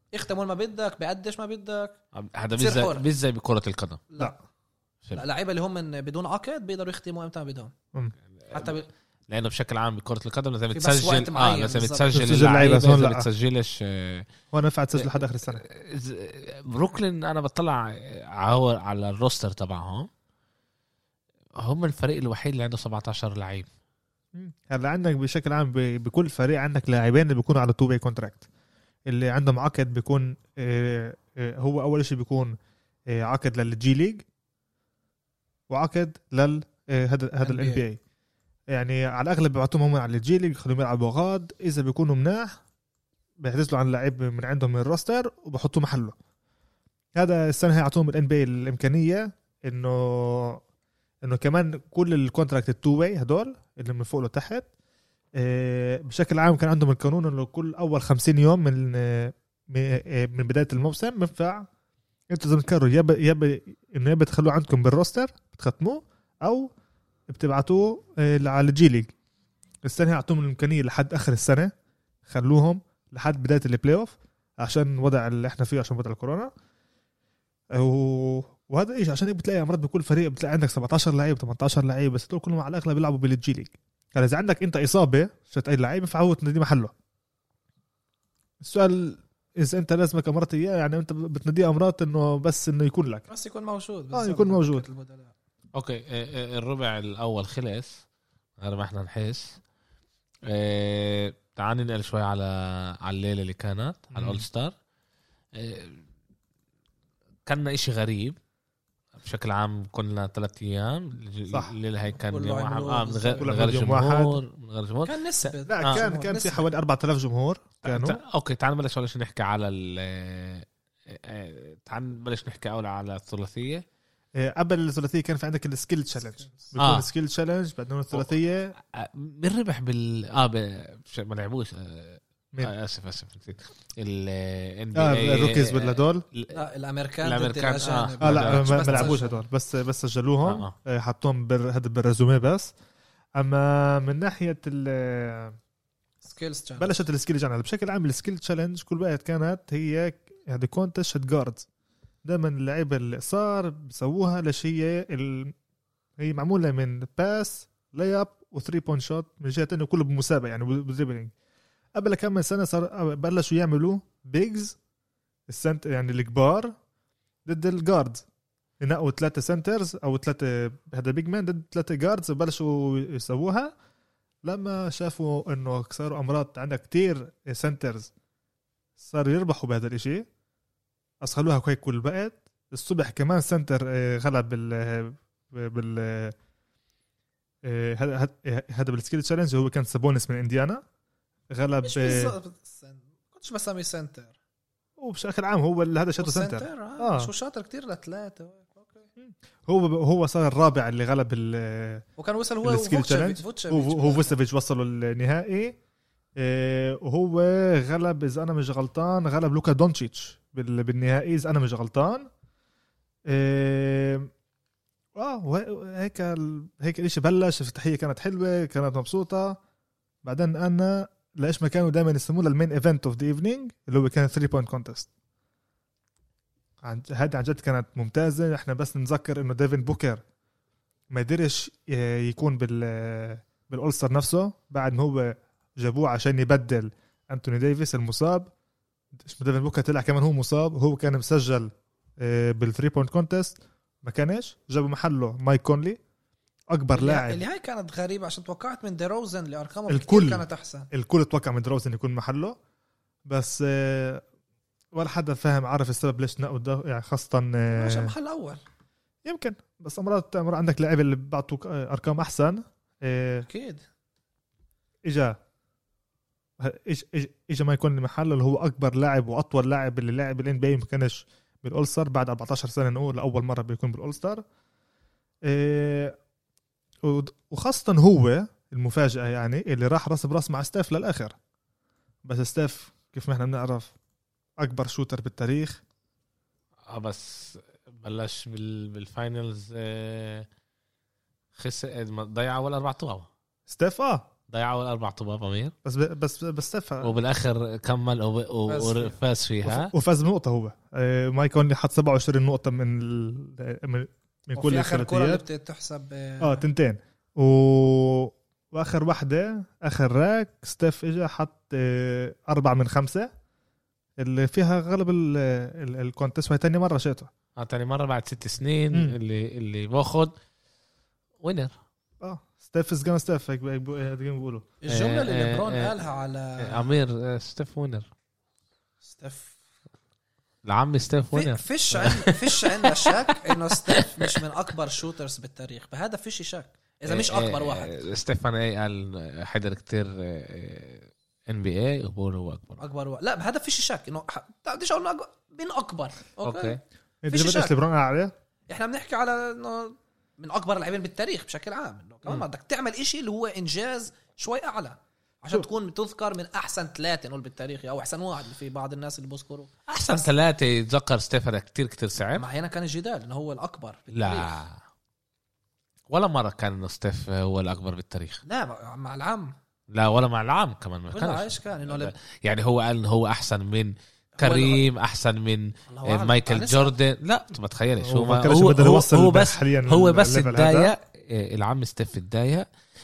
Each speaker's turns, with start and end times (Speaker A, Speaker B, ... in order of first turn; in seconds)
Speaker A: 0.1-2.0, 2.6-3.0, 4.1-4.4, 5.1-7.7, 8.5-8.9, 10.7-12.2, 37.4-37.8, 93.3-95.3, 112.2-113.5, 115.1-116.7, 126.3-126.7, 136.5-139.4, 146.2-147.0, 191.8-194.4, 196.2-199.1, 202.2-204.4, 246.9-250.9, 257.7-258.6, 263.4-263.8, 298.7-299.2, 304.6-306.6, 324.8-327.0, 329.1-329.6, 331.3-337.9, 342.8-346.8, 347.3-347.8, 348.7-360.3, 362.4-364.6, 368.4-369.6, 371.1-372.1, 374.4-374.9, 375.9-376.9
Speaker B: 2.1-4.0, 8.4-8.7, 9.3-14.3, 15.5-20.1, 21.6-23.7, 95.7-98.0, 98.6-99.6, 100.5-104.7, 105.5-106.0, 107.5-108.4, 109.2-116.0, 117.8-123.8, 126.8-127.1, 128.1-136.6, 137.2-139.2, 140.5-140.7, 286.9-290.5, 291.6-293.3, 294.5-295.7, 297.0-299.9, 317.6-320.3, 321.4-321.8, 324.9-325.9, 326.6-328.1, 330.6-334.3, 337.1-342.8, 346.4-346.8, 359.9-362.5, 364.1-364.8, 366.1-368.4, 369.9-382.7
Speaker C: 12.1-13.3, 14.5-15.6, 24.4-28.4, 29.1-32.5, 33.1-34.2, 35.7-38.0, 38.7-42.6, 43.4-46.1, 47.1-50.6, 51.2-54.7, 55.4-61.7, 62.3-66.7, 67.3-69.1, 69.8-71.7, 72.3-76.5, 77.7-86.9, 88.6-93.3, 94.1-94.8, 104.1-104.5, 111.5-111.7, 113.4-114.4, 115.7-118.2, 124.4-128.7, 134.9-136.2, 138.2-142.7, 143.4-145.6, 146.8-151.7, 152.2-155.5, 156.2-161.3, 161.9-164.8, 165.5-166.8, 167.5-168.3, 168.8-173.7, 174.4-178.1, 179.0-180.3, 181.2-186.3, 187.7-190.8, 191.5-192.4, 195.0-197.3, 199.2-202.1, 202.6-205.8, 206.4-212.3, 213.3-214.3, 215.2-219.6, 220.2-225.1, 226.8-230.2, 231.1-238.5, 239.1-246.0, 246.7-247.4, 249.9-252.6, 253.3-254.2, 254.9-258.1, 259.2-263.5, 265.0-265.4, 266.6-274.4, 275.5-276.2, 277.0-281.4, 282.2-283.9, 284.6-285.8, 293.7-294.3, 295.9-297.1, 299.6-305.4, 306.4-313.3, 314.2-317.3, 322.2-324.7, 347.2-348.3, 378.0-380.9